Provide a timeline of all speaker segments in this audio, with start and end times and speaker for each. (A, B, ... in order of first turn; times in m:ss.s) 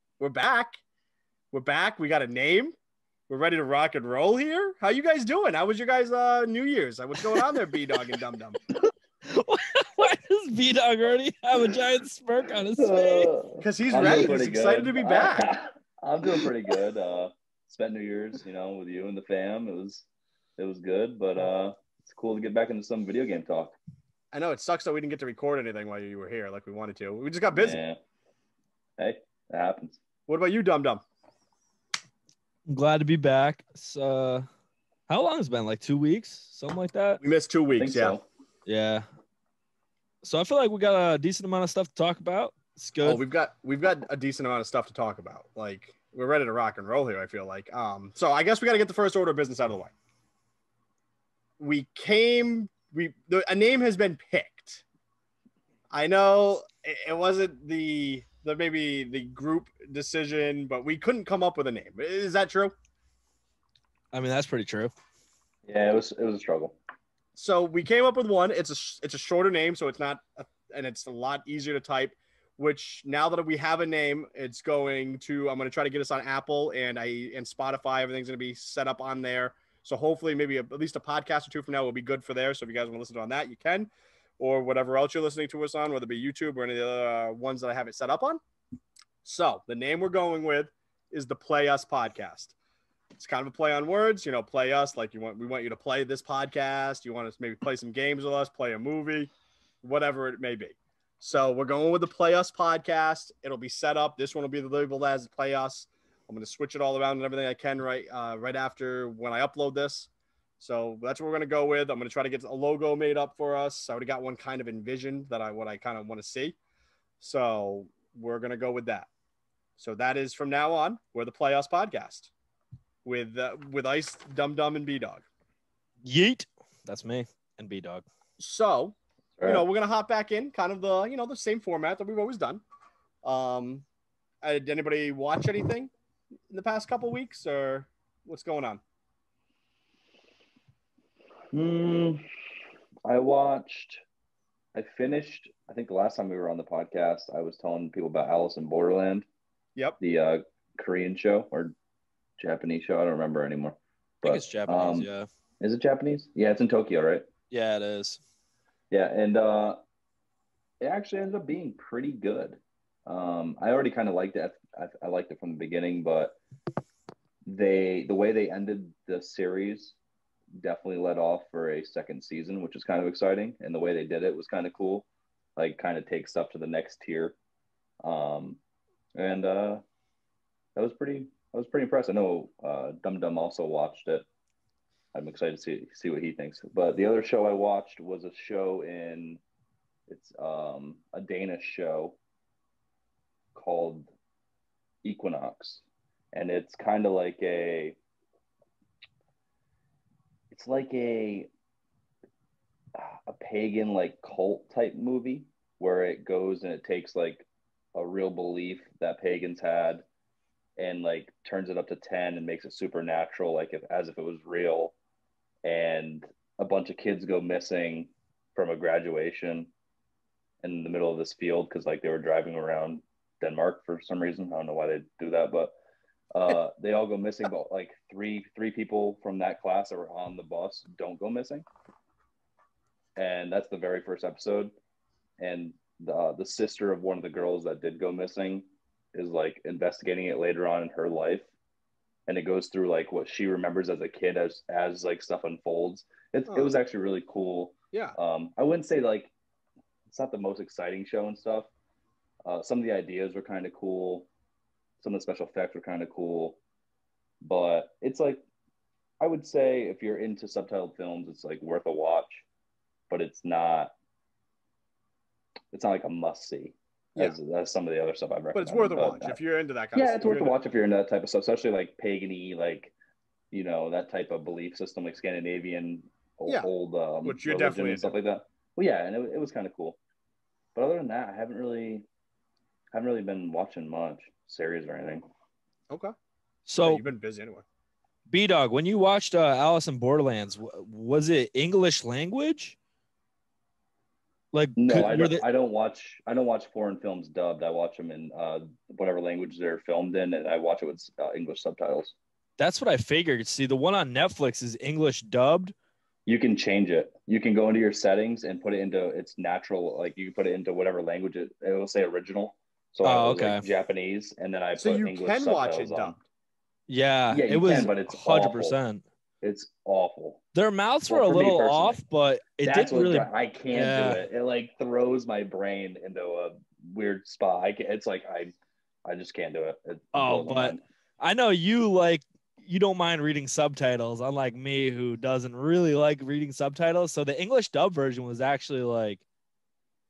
0:00.2-0:00.8 A
0:01.5-0:02.7 A
0:03.3-0:08.6 A
0:07.2-0:07.8 B
0:09.2-0:13.3 B
0:12.8-0:20.0 C
0:13.6-0:15.5 A
0:20.6-0:23.8 C
0:24.3-0:27.8 A
0:27.5-0:28.0 C
0:29.0-0:30.0 C
0:30.3-0:31.0 A
0:32.7-0:34.5 B
0:35.1-0:37.2 B
0:37.2-0:38.2 A
0:37.8-0:38.2 C
0:38.6-0:39.0 B
0:40.2-0:43.2 B
0:43.0-0:49.9 A
0:51.6-0:54.8 A
0:55.9-1:02.7 A
1:04.1-1:04.9 B
1:05.6-1:06.8 C
1:07.4-1:28.4 A
1:29.2-1:32.5 A
1:33.2-1:39.3 A
1:39.8-1:56.6 A
1:57.2-1:59.1 A
1:59.8-2:02.3 A
2:03.0-2:05.2 A
2:06.0-2:08.0 B
2:08.4-2:12.6 A
2:09.4-2:09.6 C
2:13.2-2:13.8 A
2:14.4-2:15.9 A
2:16.5-2:18.8 A
2:21.5-2:22.2 C
2:23.0-2:24.0 C
2:24.7-2:29.3 C
2:30.0-2:31.7 C
2:32.4-2:35.1 C
2:34.2-2:35.3 B
2:35.6-2:37.3 C
2:37.5-2:38.2 B
2:38.9-2:39.8 C
2:40.8-2:46.4 C
2:47.4-2:50.0 C
2:50.6-2:57.4 C
2:58.0-2:58.6 C
2:59.1-2:59.8 C
3:00.8-3:04.3 C
3:05.1-3:09.4 C
3:10.1-3:12.2 C
3:13.5-3:14.1 C
3:15.0-3:18.0 C
3:20.5-3:21.5 C
3:22.9-3:30.0 C
3:30.8-3:34.9 C
3:35.6-3:39.7 C
3:40.6-3:45.7 C
3:46.3-3:51.6 C
3:53.2-3:54.7 C
3:55.4-4:01.5 C
4:02.3-4:09.3 C
4:10.1-4:11.7 C
4:12.4-4:14.3 C
4:15.0-4:16.6 C
4:17.4-4:18.4 C
4:19.2-4:22.4 C
4:23.1-4:23.9 C
4:25.7-4:29.4 C
4:28.5-4:30.6 A
4:29.9-4:32.9 C
4:33.5-4:40.0 C
4:37.2-4:38.1 A
4:40.7-4:42.0 C
4:42.9-4:45.2 C
4:46.7-4:47.0 B
4:46.8-4:47.6 A
4:48.3-4:52.8 B
4:54.5-4:55.4 B
4:54.8-5:02.1 C
5:02.6-5:05.7 B
5:06.2-5:16.2 C
5:13.0-5:13.6 B
5:14.8-5:16.2 A
5:16.9-5:19.0 B
5:17.3-5:18.8 C
5:19.4-5:20.4 C
5:20.5-5:24.2 B
5:21.1-5:22.0 C
5:22.6-5:28.5 C
5:29.0-5:30.8 C
5:30.1-5:39.2 B